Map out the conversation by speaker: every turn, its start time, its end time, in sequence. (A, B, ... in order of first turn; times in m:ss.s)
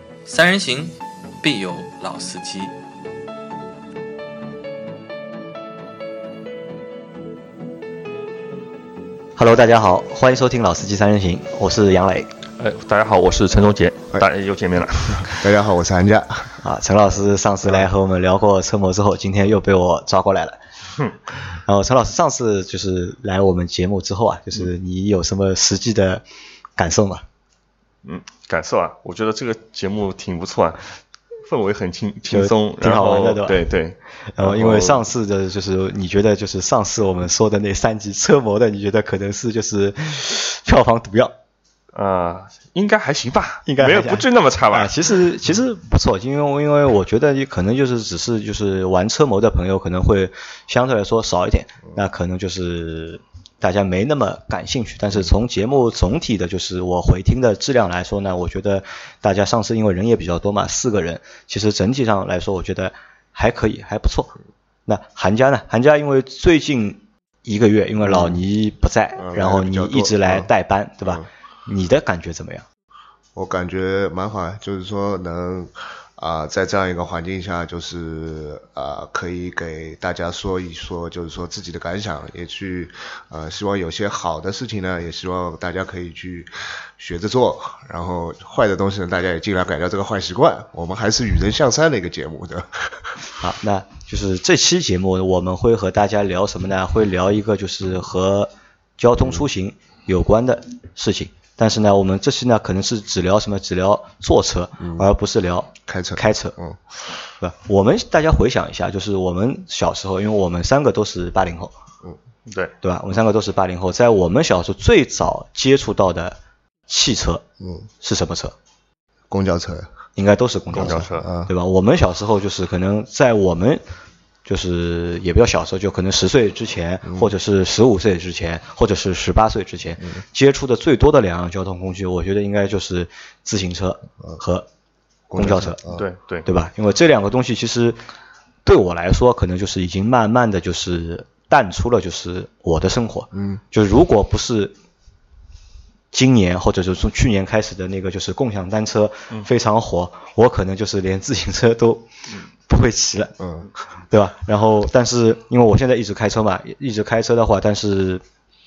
0:00.3-0:02.7 A
0:09.4-0:12.3 B
0:12.6-0:15.5 C
0:15.3-0:16.6 D
0:16.6-0:20.6 B
0:21.7-0:26.2 B
0:26.8-0:27.2 B
0:28.0-0:30.9 C
0:31.4-0:35.0 C
0:32.3-0:33.7 B
0:34.3-0:41.3 B
0:41.9-0:44.9 C
0:43.7-1:04.3 B
1:04.9-1:12.6 B
1:08.0-1:08.4 D
1:09.2-1:10.5 D
1:13.3-1:33.1 D
1:33.4-1:46.6 B
1:39.2-1:39.4 D
1:44.8-1:45.1 D
1:45.9-1:46.8 D
1:47.4-1:51.7 B
1:52.5-1:52.7 C
1:52.8-1:57.4 B
1:57.6-1:57.9 D
1:58.0-1:58.6 B
1:59.3-1:59.9 D
2:00.2-2:03.8 B
2:00.7-2:01.3 C
2:00.7-2:01.5 D
2:04.4-2:14.6 B
2:15.3-2:16.1 D
2:15.4-2:15.8 B
2:15.9-2:16.5 C
2:16.4-2:18.0 B
2:18.6-2:24.7 B
2:23.3-2:23.6 D
2:26.1-2:32.1 B
2:32.7-2:33.4 B
2:33.4-2:33.7 D
2:34.1-2:38.2 B